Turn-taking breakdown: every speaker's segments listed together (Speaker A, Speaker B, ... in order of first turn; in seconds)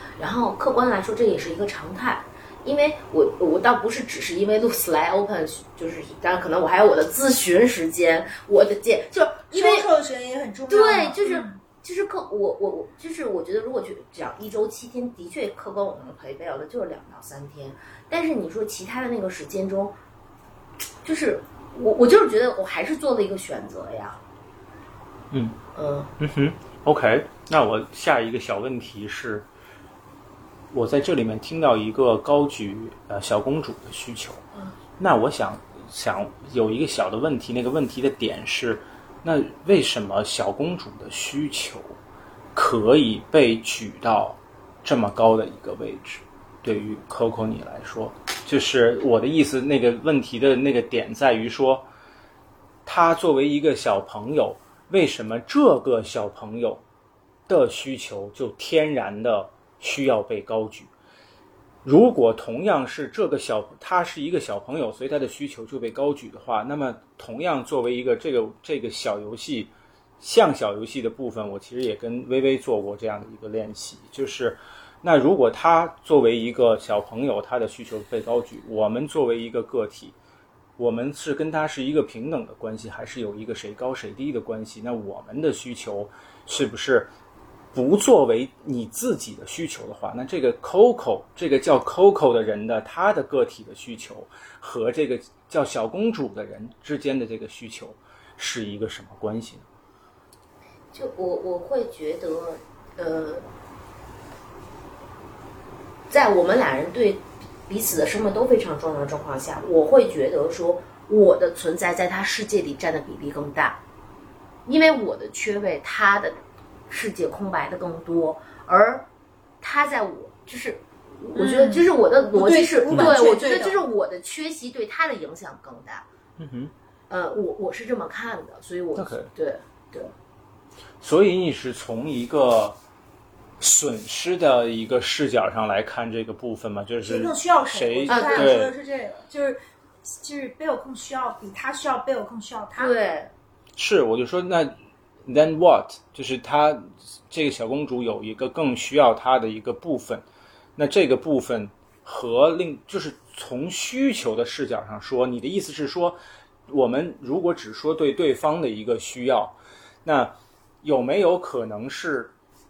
Speaker A: 0.2-9.8, 10.7-20.0, 21.0-24.2, 25.7-26.1, 100.9-103.5, 106.1-113.8, 114.7-119.0, 119.6-126.0, 127.1-130.1, 138.1-138.5, 142.8-143.3
Speaker B: 9.5-11.6, 121.3-123.8, 137.0-142.9
Speaker C: 25.3-25.6, 26.2-29.4, 30.7-34.4, 35.0-41.9, 42.5-51.9, 52.9-56.8, 57.5-60.9, 61.8-80.1, 80.8-87.1, 87.7-99.7, 122.9-123.2, 126.4-126.7, 128.9-129.3, 131.0-132.8, 133.6-138.7, 143.8-150.2, 150.8-162.3